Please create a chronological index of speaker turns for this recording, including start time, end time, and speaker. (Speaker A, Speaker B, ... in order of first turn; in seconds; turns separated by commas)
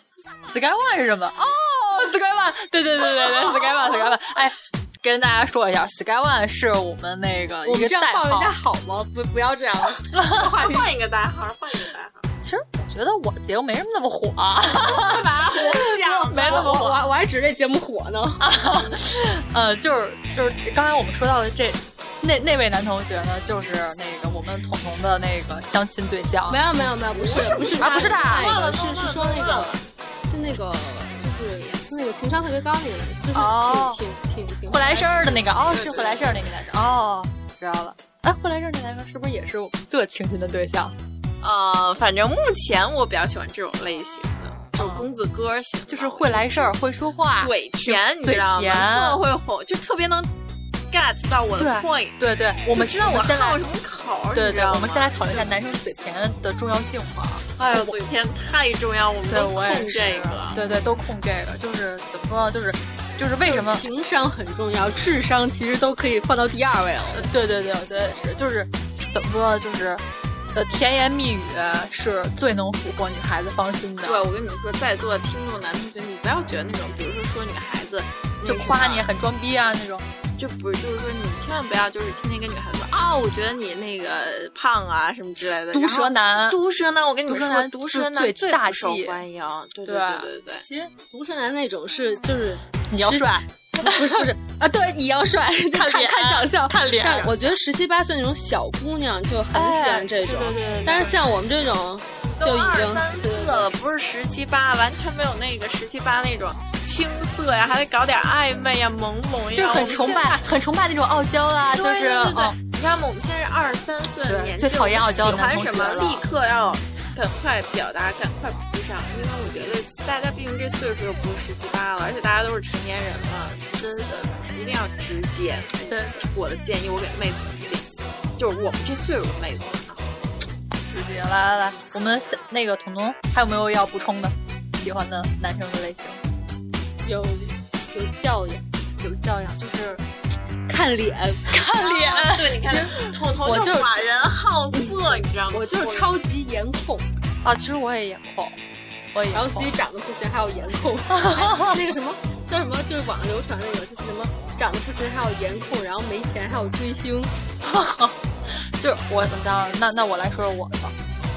Speaker A: 0.5-8.5, Speaker B: 7.6-10.1, Speaker A: 10.1-10.7, Speaker C: 10.2-12.3, Speaker A: 12.4-17.0, Speaker C: 14.7-16.9, Speaker B: 15.7-18.4, Speaker A: 18.4-26.6, Speaker B: 26.5-35.6, Speaker C: 27.1-29.8, Speaker A: 27.8-28.6, Speaker A: 33.3-34.0, Speaker A: 34.7-40.9, Speaker C: 35.7-36.3, Speaker C: 41.4-46.8, Speaker A: 44.8-45.1, Speaker A: 45.9-49.2, Speaker C: 47.4-50.3, Speaker C: 50.9-55.5, Speaker A: 51.6-53.6, Speaker A: 54.3-57.9, Speaker C: 57.5-60.6, Speaker A: 59.3-63.8, Speaker B: 63.4-67.3, Speaker A: 67.1-74.2, Speaker C: 74.0-79.1, Speaker A: 78.4-80.0, Speaker C: 80.4-90.6, Speaker A: 85.7-86.6, Speaker A: 87.3-89.2, Speaker A: 89.8-90.3, Speaker B: 90.7-103.7, Speaker A: 92.9-94.3, Speaker A: 95.7-97.3, Speaker C: 97.0-97.5, Speaker A: 99.5-101.4, Speaker C: 102.2-110.5, Speaker A: 109.5-112.5, Speaker C: 111.7-130.3, Speaker A: 114.3-116.2, Speaker A: 125.9-126.3, Speaker A: 130.8-136.2, Speaker B: 137.0-138.7, Speaker A: 139.0-140.0, Speaker B: 140.7-141.4, Speaker A: 141.5-143.1, Speaker C: 141.8-146.1, Speaker B: 143.4-144.0, Speaker B: 144.7-147.1, Speaker A: 147.4-148.6, Speaker A: 149.1-149.7, Speaker B: 149.3-157.3, Speaker A: 151.1-151.8, Speaker A: 157.6-160.9